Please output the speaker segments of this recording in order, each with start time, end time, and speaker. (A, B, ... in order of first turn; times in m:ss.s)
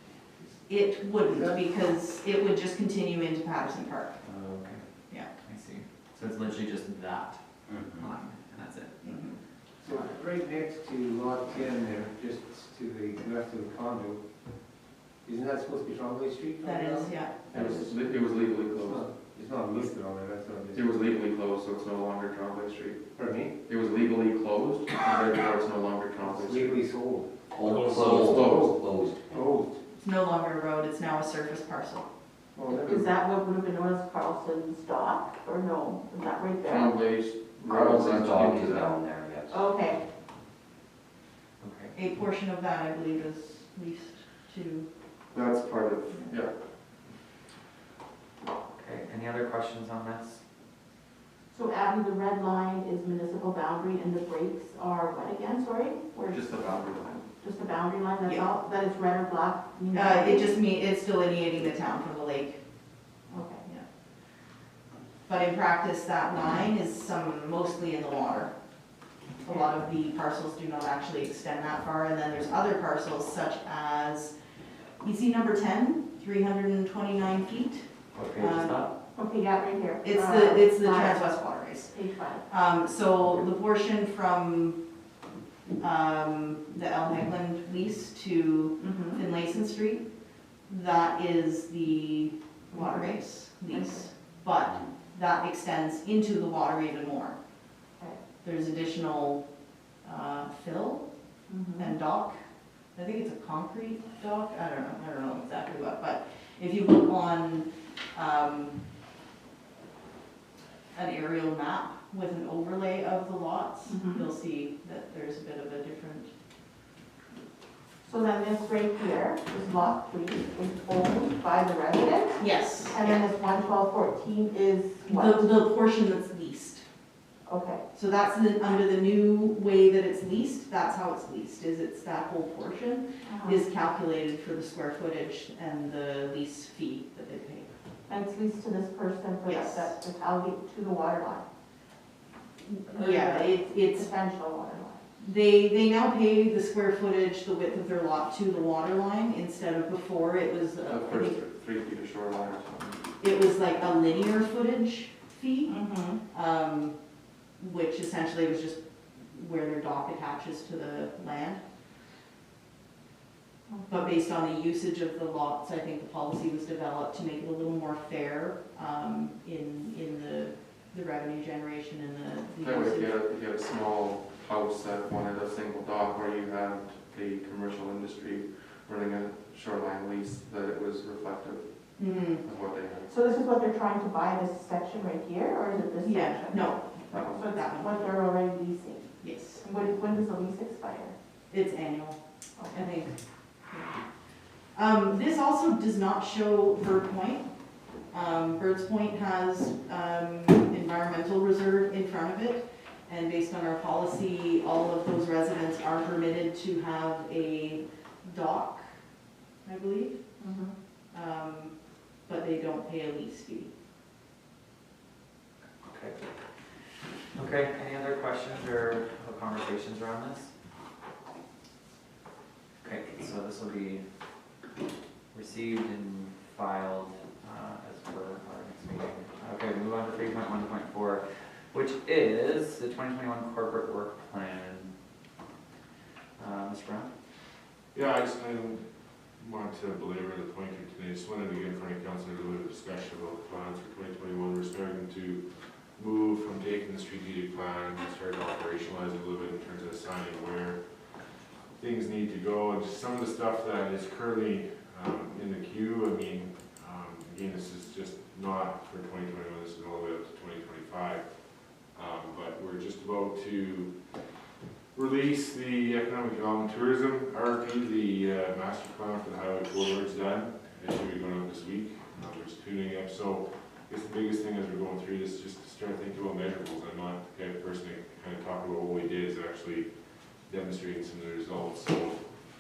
0:00.7-0:04.2 A
0:01.2-0:01.6 B
0:04.3-0:09.2 C
0:07.7-0:08.1 D
0:09.0-0:09.4 A
0:09.8-0:14.2 B
0:15.2-0:18.0 B
0:16.6-0:17.4 A
0:17.5-0:19.1 E
0:18.6-0:20.9 B
0:20.8-0:23.1 E
0:23.2-0:23.5 B
0:23.6-0:26.8 E
0:26.2-0:27.3 B
0:27.5-0:29.2 D
0:27.9-0:28.7 E
0:27.9-0:28.8 B
0:29.3-0:29.8 B
0:29.9-0:32.0 A
0:32.6-0:33.1 B
0:32.8-0:37.0 F
0:36.6-0:38.9 E
0:37.6-0:39.6 D
0:39.5-0:40.0 F
0:41.6-0:42.0 C
0:42.0-0:44.9 A
0:45.3-0:46.6 E
0:46.1-0:46.4 A
0:48.7-0:50.4 C
0:51.5-0:56.8 F
0:56.3-0:57.3 E
0:57.4-1:00.6 F
0:59.9-1:02.6 A
1:03.3-1:03.6 F
1:05.3-1:08.5 A
1:09.4-1:14.4 A
1:15.0-1:18.8 A
1:18.1-1:18.9 C
1:19.2-1:21.3 F
1:20.0-1:22.0 A
1:21.9-1:22.4 F
1:22.5-1:24.8 A
1:25.8-1:30.0 A
1:28.8-1:29.2 F
1:30.7-1:37.4 A
1:32.7-1:33.2 F
1:33.7-1:34.1 F
1:38.4-1:39.4 A
1:40.0-1:41.0 A
1:41.5-1:42.0 F
1:41.8-1:42.4 A
1:43.0-1:48.8 A
1:50.9-1:56.3 A
1:53.9-1:54.2 F
1:58.0-2:05.5 F
2:02.4-2:03.3 A
2:05.1-2:06.8 A
2:07.5-2:07.8 F
2:07.9-2:17.7 A
2:13.2-2:13.6 F
2:18.1-2:21.4 F
2:19.4-2:19.9 A
2:22.7-2:24.1 A
2:22.9-2:25.0 F
2:25.2-2:31.4 A
2:30.8-2:33.0 E
2:33.2-2:35.8 A
2:35.7-2:36.2 F
2:36.3-2:37.0 A
2:37.6-2:38.8 A
2:39.3-2:41.6 A
2:43.7-2:44.1 F
2:43.9-2:53.1 A
2:52.6-3:03.1 E
3:02.0-3:02.4 A
3:03.1-3:11.2 F
3:06.0-3:08.0 A
3:07.1-3:07.4 E
3:09.2-3:09.6 A
3:11.5-3:12.2 A
3:12.6-3:12.9 F
3:12.7-3:13.2 A
3:13.7-3:14.0 A
3:14.8-3:17.5 A
3:18.1-3:28.9 A
3:29.6-3:30.2 A
3:30.4-3:30.7 F
3:31.1-3:31.7 A
3:32.3-3:33.7 A
3:35.8-3:36.2 C
3:37.4-3:40.5 C
3:42.8-3:44.0 C
3:45.3-3:54.9 C
3:56.4-3:57.1 C
3:57.9-3:58.8 G
3:59.4-4:05.4 G
4:05.9-4:10.8 G
4:11.8-4:24.0 G
4:24.9-4:42.3 G